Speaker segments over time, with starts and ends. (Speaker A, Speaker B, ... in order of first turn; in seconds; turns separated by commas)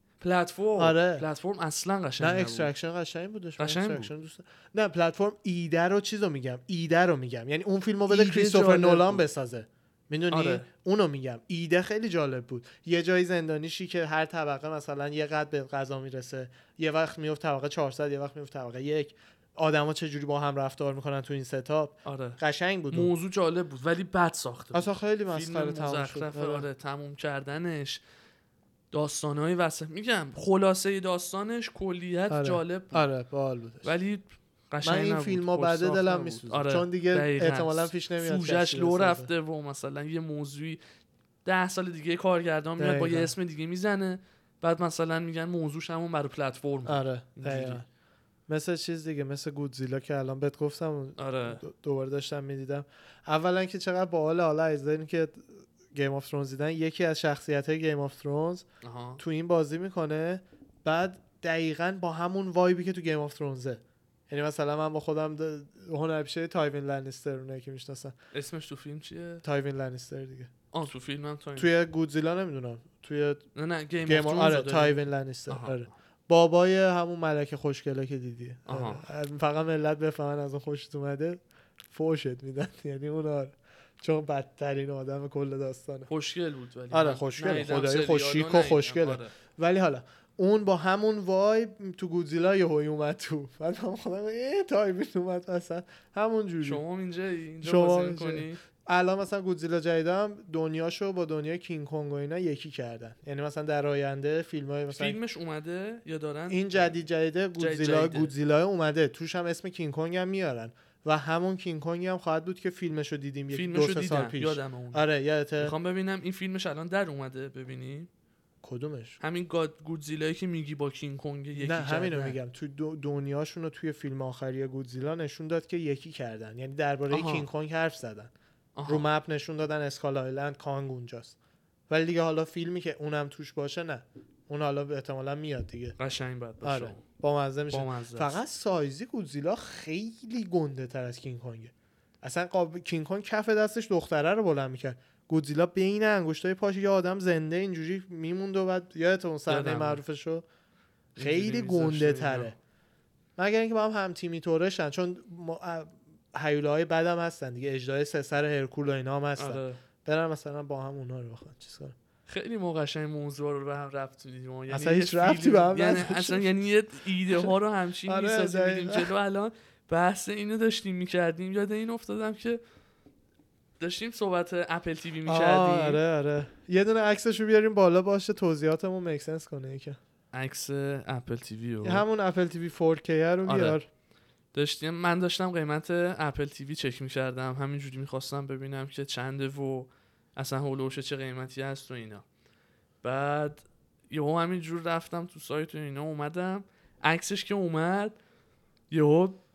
Speaker A: 0.2-2.7, Speaker B: 0.8-1.3, Speaker B: 2.2-23.1, Speaker A: 3.6-4.1, Speaker A: 8.1-9.3, Speaker A: 10.3-10.7, Speaker A: 22.1-22.4, Speaker A: 22.9-28.0, Speaker B: 24.7-26.7, Speaker A: 28.9-33.1, Speaker B: 32.3-33.9, Speaker A: 33.8-40.8, Speaker B: 34.8-39.3, Speaker A: 41.5-47.8, Speaker B: 42.8-43.3, Speaker B: 46.9-47.9, Speaker B: 48.5-58.7, Speaker A: 51.2-51.6, Speaker A: 58.8-59.2, Speaker B: 59.2-68.2, Speaker A: 68.3-69.4, Speaker B: 69.4-70.5, Speaker A: 70.7-71.7, Speaker B: 71.6-73.5, Speaker A: 73.5-75.9, Speaker B: 74.1-86.1, Speaker A: 78.7-79.1, Speaker A: 86.1-89.3, Speaker B: 86.9-96.8, Speaker A: 96.6-98.6, Speaker B: 97.6-105.2, Speaker A: 104.9-107.0, Speaker B: 106.5-115.8, Speaker A: 107.6-108.3, Speaker A: 113.5-115.1, Speaker A: 115.6-118.1, Speaker B: 118.6-119.2, Speaker A: 119.2-122.4, Speaker B: 121.6-128.3, Speaker A: 127.1-127.5, Speaker A: 128.8-129.1, Speaker B: 128.9-131.4, Speaker B: 131.9-136.0, Speaker A: 136.0-137.0, Speaker B: 136.6-150.4, Speaker A: 137.7-138.4, Speaker A: 149.5-150.0, Speaker A: 151.2-152.5, Speaker B: 151.2-152.6, Speaker B: 153.4-162.0, Speaker A: 159.4-159.8, Speaker A: 162.3-172.6, Speaker B: 164.7-166.6, Speaker B: 167.3-167.5, Speaker B: 168.1-169.1, Speaker A: 173.8-176.0, Speaker B: 175.3-180.0, Speaker A: 180.3-182.0, Speaker B: 181.8-183.9, Speaker A: 183.5-183.8, Speaker A: 184.5-192.2, Speaker A: 193.0-198.2, Speaker A: 198.9-199.4